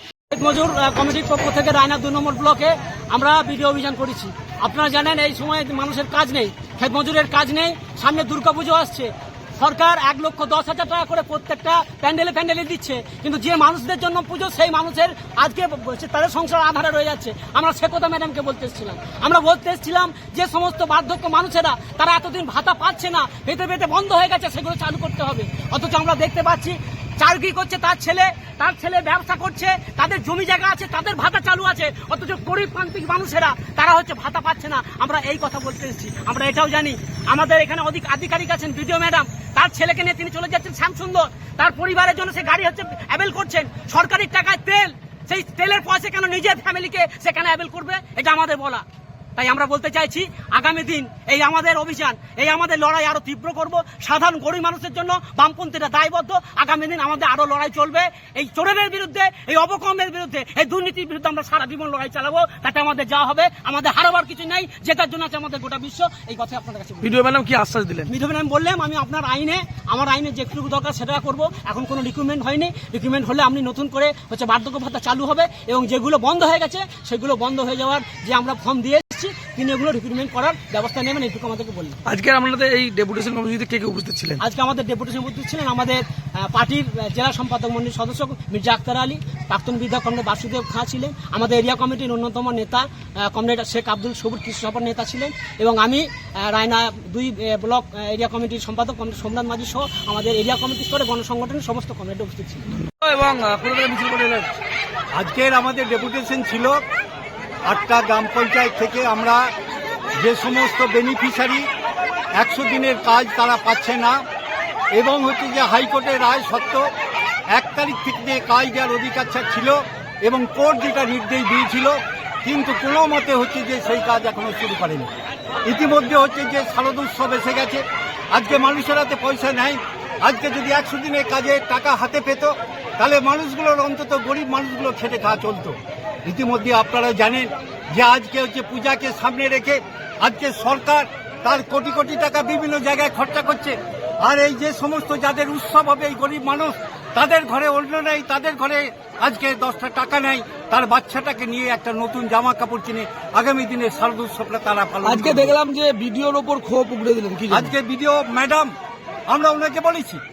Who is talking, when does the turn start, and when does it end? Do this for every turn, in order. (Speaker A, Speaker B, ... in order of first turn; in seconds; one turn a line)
Speaker A: 0.3-48.8
Speaker A: 49.4-67.2
Speaker B: 67.0-68.1
Speaker A: 68.0-82.0
Speaker B: 82.0-84.4
Speaker A: 84.4-102.6
Speaker B: 103.0-104.6
Speaker C: 105.1-106.8
Speaker C: 107.7-109.4
Speaker C: 110.2-111.7
Speaker C: 112.3-114.2
Speaker C: 115.0-116.8
Speaker C: 117.5-125.1
Speaker C: 125.7-127.8
Speaker C: 128.3-155.6
Speaker B: 155.0-157.7
Speaker C: 157.5-158.7
Speaker C: 159.3-160.2